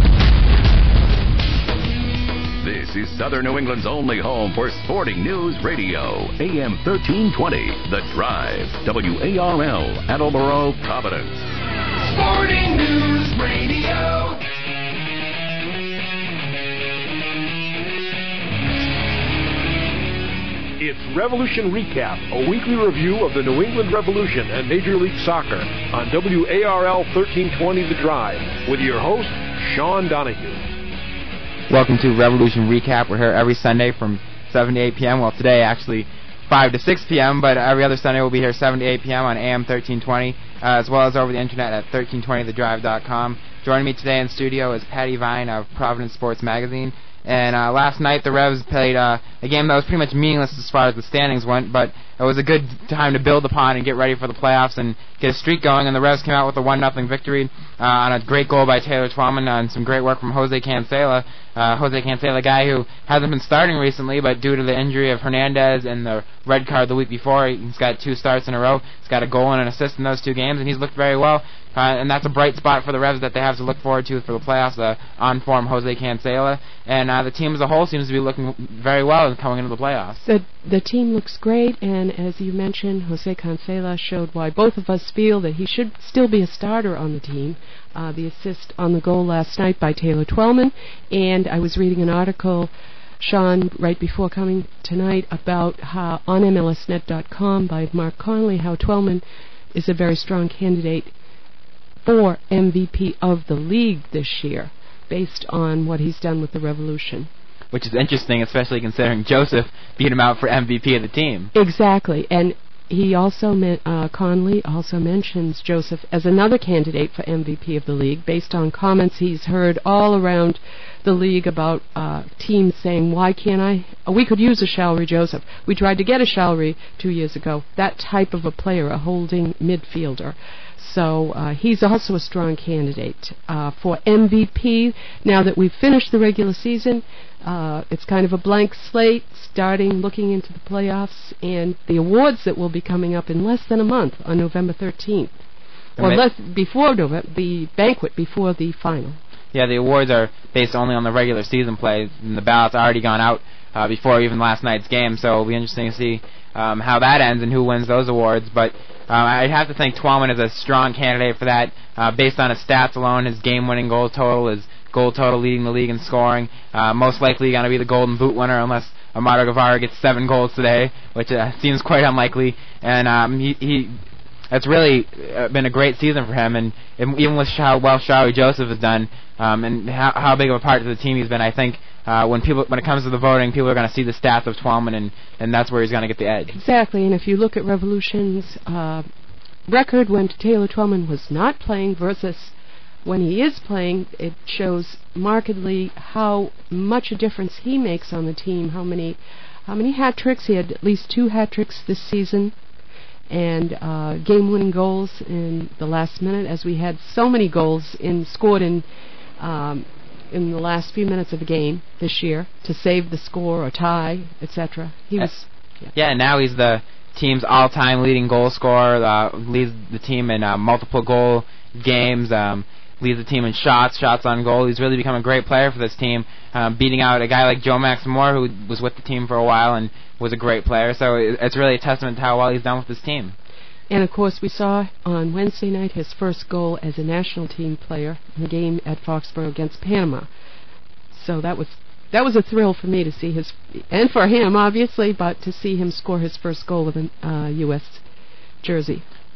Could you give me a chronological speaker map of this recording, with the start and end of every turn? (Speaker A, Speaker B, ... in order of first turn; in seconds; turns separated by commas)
Speaker A: 2.6-11.4, Speaker B: 12.0-14.4, Speaker C: 20.8-30.7, Speaker D: 31.7-80.2, Speaker E: 80.2-99.2, Speaker E: 99.7-101.1, Speaker E: 102.0-107.3, Speaker D: 107.7-111.5, Speaker E: 111.5-145.4, Speaker E: 146.0-149.2, Speaker D: 149.5-173.9, Speaker D: 174.5-186.5, Speaker E: 186.5-189.1, Speaker E: 189.7-202.5, Speaker E: 203.3-208.8, Speaker E: 209.4-215.4, Speaker D: 215.9-233.3, Speaker E: 233.9-240.3, Speaker E: 241.1-248.0, Speaker E: 248.6-249.0